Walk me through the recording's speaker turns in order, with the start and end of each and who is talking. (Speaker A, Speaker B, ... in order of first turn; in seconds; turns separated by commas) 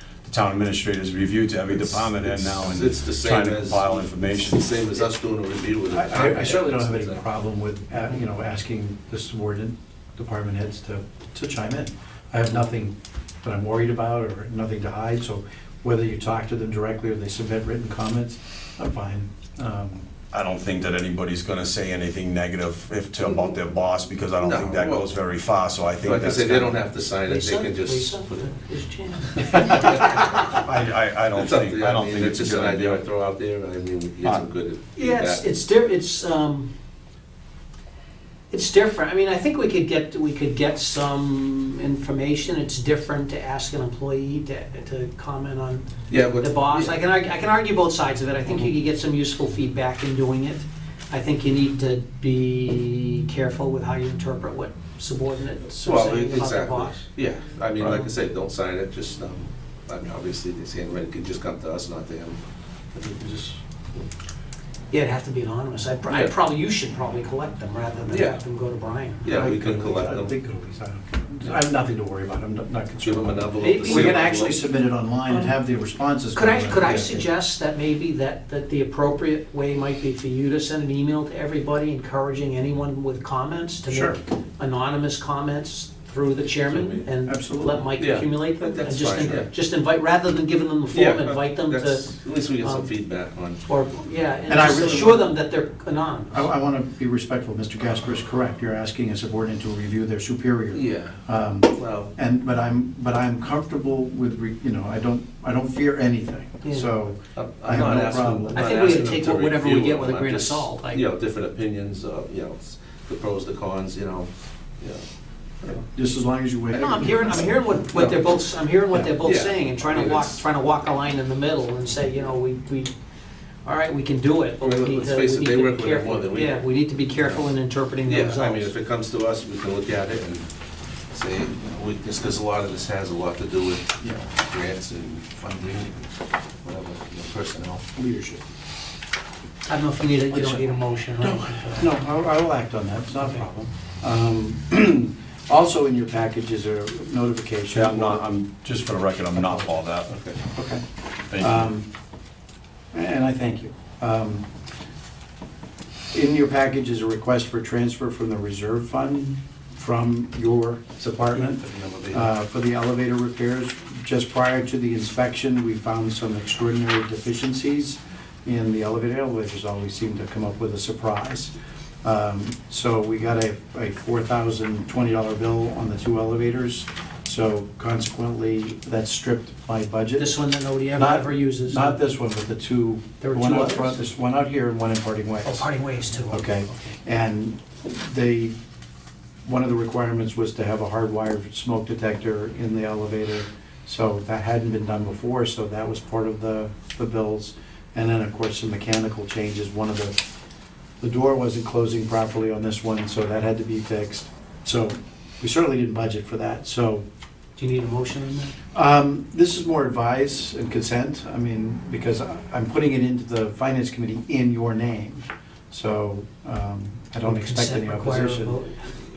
Speaker A: 0.2-4.6, Speaker B: 1.7-7.2, Speaker C: 5.9-20.1, Speaker A: 20.3-26.8, Speaker B: 24.4-25.1, Speaker B: 26.0-28.5, Speaker D: 27.2-30.2, Speaker A: 29.6-33.0, Speaker B: 29.7-30.5, Speaker B: 31.3-35.4, Speaker D: 35.0-36.7, Speaker D: 38.5-57.0, Speaker B: 46.1-47.0, Speaker B: 55.7-62.4, Speaker B: 62.9-64.0, Speaker D: 64.9-69.4, Speaker B: 68.1-68.4, Speaker B: 69.2-70.3, Speaker C: 69.3-77.2, Speaker B: 73.0-74.6, Speaker D: 73.6-74.6, Speaker D: 76.3-92.9, Speaker C: 83.9-84.2, Speaker B: 86.7-87.0, Speaker C: 87.2-87.9, Speaker B: 88.0-89.5, Speaker B: 90.9-93.6, Speaker D: 93.7-96.5, Speaker C: 94.5-95.3, Speaker C: 96.3-108.8, Speaker B: 100.7-101.2, Speaker B: 101.7-102.1, Speaker D: 106.6-106.9, Speaker B: 107.3-115.0, Speaker D: 108.5-111.0, Speaker C: 115.7-117.8, Speaker D: 116.7-122.9, Speaker B: 116.7-118.3, Speaker B: 119.2-120.4, Speaker D: 123.6-128.8, Speaker B: 124.6-126.6, Speaker B: 128.1-130.5, Speaker B: 131.1-136.1, Speaker B: 136.6-137.8, Speaker C: 137.9-138.4, Speaker D: 139.7-142.0, Speaker C: 140.3-140.7, Speaker C: 141.2-148.3, Speaker A: 147.7-150.1, Speaker C: 149.4-149.7, Speaker B: 150.1-150.4, Speaker C: 150.5-151.9, Speaker A: 151.3-151.7, Speaker C: 152.9-154.5, Speaker C: 156.1-180.3, Speaker B: 161.3-162.3, Speaker D: 180.2-182.0, Speaker C: 180.9-185.7, Speaker D: 183.2-184.0, Speaker D: 185.4-186.9, Speaker C: 186.3-188.6, Speaker C: 189.4-200.2, Speaker C: 201.0-207.0, Speaker D: 207.6-208.5, Speaker C: 208.7-218.5, Speaker D: 217.2-218.9